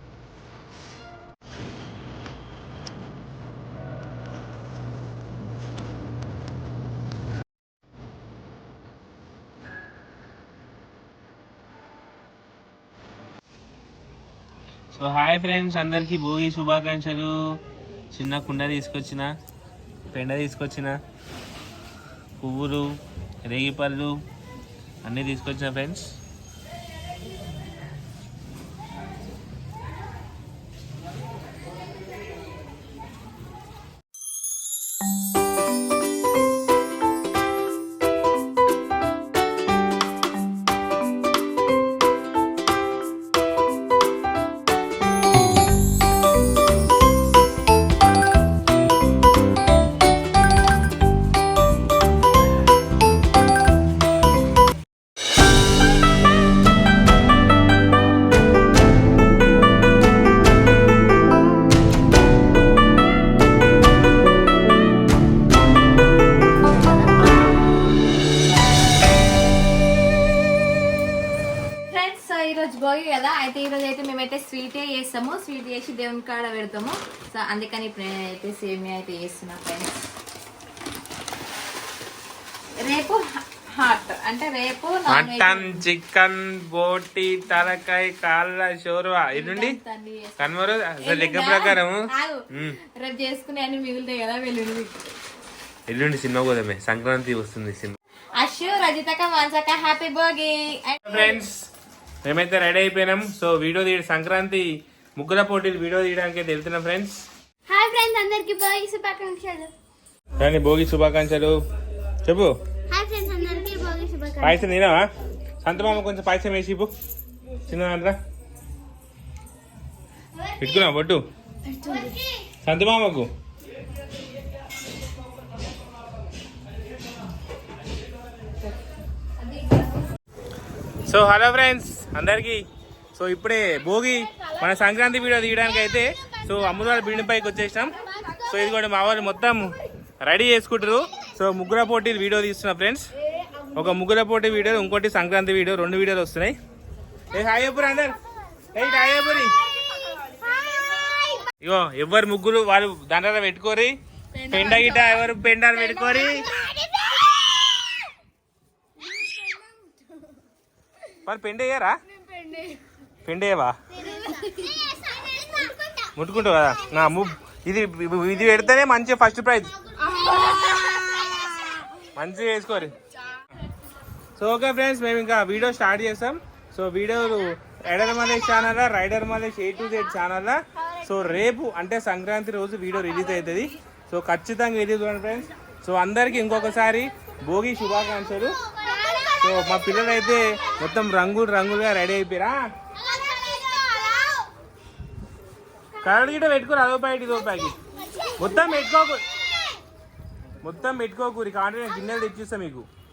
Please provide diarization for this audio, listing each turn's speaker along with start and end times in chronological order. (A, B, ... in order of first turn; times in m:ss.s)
0:14.9-0:17.4 A
0:18.1-0:19.3 A
0:20.1-0:21.0 A
0:22.4-0:24.1 A
0:25.0-0:26.1 A
1:11.9-1:20.0 B
1:22.8-1:23.2 B
1:23.8-1:25.7 B
1:25.1-1:29.7 A
1:29.3-1:34.9 B
1:30.4-1:32.0 A
1:35.9-1:38.0 A
1:38.4-1:41.4 B
1:41.0-1:41.5 A
1:42.2-1:44.6 A
1:45.2-1:47.2 A
1:47.7-1:49.7 C
1:50.4-1:51.6 A
1:52.2-1:52.5 A
1:52.9-1:54.6 C
1:54.4-1:55.1 A
1:55.6-1:56.9 A
1:57.7-1:58.2 A
2:00.6-2:01.2 A
2:01.8-2:02.4 C
2:01.8-2:02.1 B
2:02.6-2:03.3 A
2:09.4-2:09.9 B
2:11.1-2:12.6 A
2:13.1-2:23.1 A
2:23.7-2:26.5 A
2:27.3-2:28.2 A
2:28.7-2:29.6 A
2:30.4-2:31.5 C
2:31.6-2:33.9 A
2:34.5-2:36.5 A
2:34.6-2:35.1 B
2:36.0-2:38.0 C
2:41.2-2:41.9 A
2:43.2-2:43.7 A
2:43.9-2:45.8 C
2:46.2-2:49.7 A
2:50.3-2:51.4 C
2:50.4-2:51.0 B
2:52.1-2:52.9 A
2:54.4-3:08.6 A
3:08.7-3:09.9 C
3:09.4-3:12.6 A
3:13.0-3:14.5 C
3:16.0-3:17.8 A
3:18.4-3:19.2 A
3:20.6-3:22.8 A